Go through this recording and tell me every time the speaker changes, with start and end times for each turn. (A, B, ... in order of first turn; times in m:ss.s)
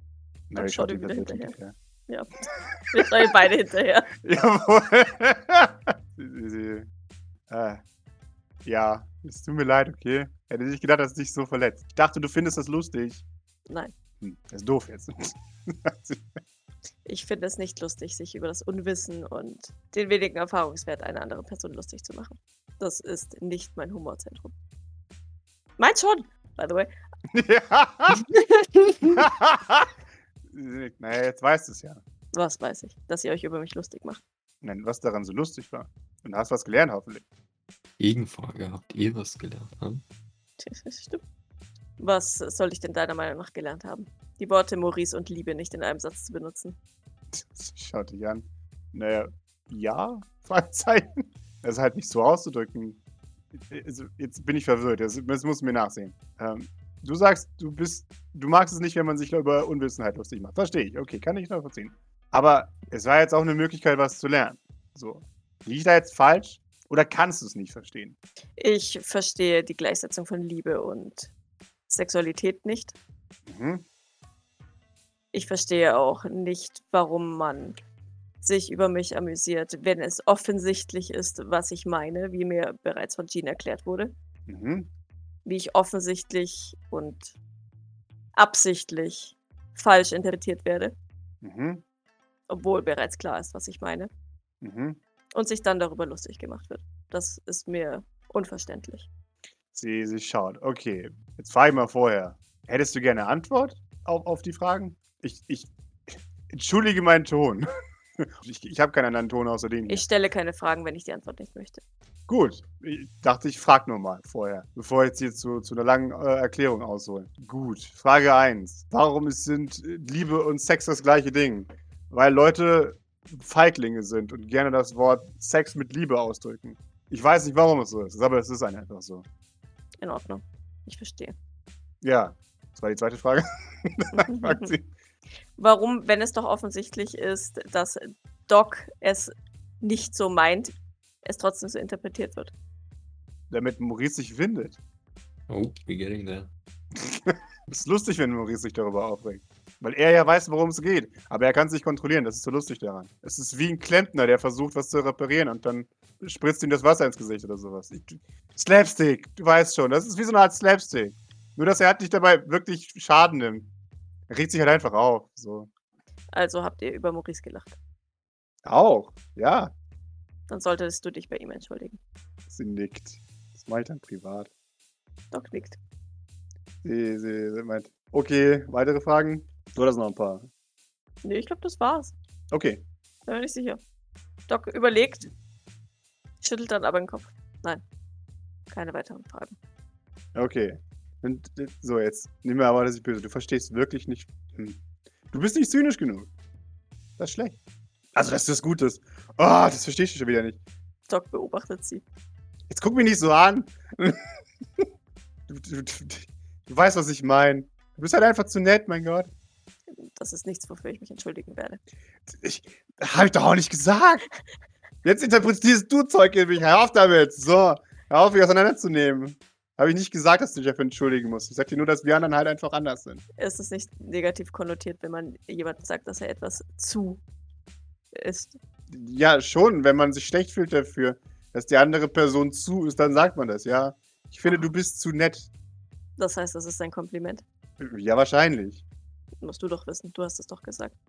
0:00.5-0:01.7 A
0:00.6-0:01.6 B
0:02.1-0:04.1 B
0:02.5-0:03.3 A
0:04.2-0:06.9 A
0:07.5-0:07.8 A
0:08.6-0:13.2 A
0:13.7-0:13.9 B
0:14.2-0:16.4 A
0:17.0-0:24.5 B
0:25.8-0:26.9 B
0:27.3-0:28.3 A
0:29.0-0:29.9 A
0:30.4-0:32.0 A
0:32.3-0:34.2 B
0:34.6-0:37.2 A
0:38.0-0:40.0 C
0:40.6-0:41.2 B
0:42.0-0:46.8 B
0:47.3-0:53.0 A
0:53.5-1:08.2 A
1:08.6-1:11.3 B
1:11.9-1:12.9 B
1:13.4-1:13.8 A
1:15.3-1:17.8 B
1:18.4-1:24.1 B
1:24.5-1:24.9 A
1:25.4-1:27.4 B
1:28.4-1:30.9 B
1:31.4-1:31.8 A
1:32.5-1:34.1 B
1:34.6-1:35.0 A
1:35.3-1:39.1 B
1:39.7-1:50.0 A
1:49.9-1:51.8 B
1:52.3-2:09.2 A
2:10.0-2:11.3 B
2:12.0-2:14.9 A
2:14.2-2:14.7 B
2:15.6-2:22.5 B
2:23.5-2:24.8 A
2:25.5-2:26.5 C
2:26.9-2:43.7 A
2:44.3-2:45.7 A
2:46.3-2:47.8 B
2:48.6-2:49.7 A
2:50.5-2:52.0 B
2:52.5-2:54.5 A
2:55.3-2:55.8 B
2:56.8-3:00.5 A
3:01.2-3:02.1 B
3:02.5-3:02.8 A
3:03.2-3:03.8 B
3:04.5-3:05.3 B
3:06.4-3:07.8 B
3:08.7-3:09.6 B
3:10.3-3:14.8 A
3:15.3-3:16.3 A
3:17.2-3:17.6 A
3:18.1-3:20.6 A
3:21.1-3:22.0 B
3:22.7-3:24.9 A
3:25.5-3:29.3 A
3:29.9-3:31.8 B
3:32.3-3:34.2 A
3:35.0-3:43.2 A
3:43.4-3:47.2 B
3:48.1-3:48.6 B
3:48.9-3:55.5 A
3:56.2-3:57.4 B
3:57.8-3:58.8 A
3:59.4-4:00.9 B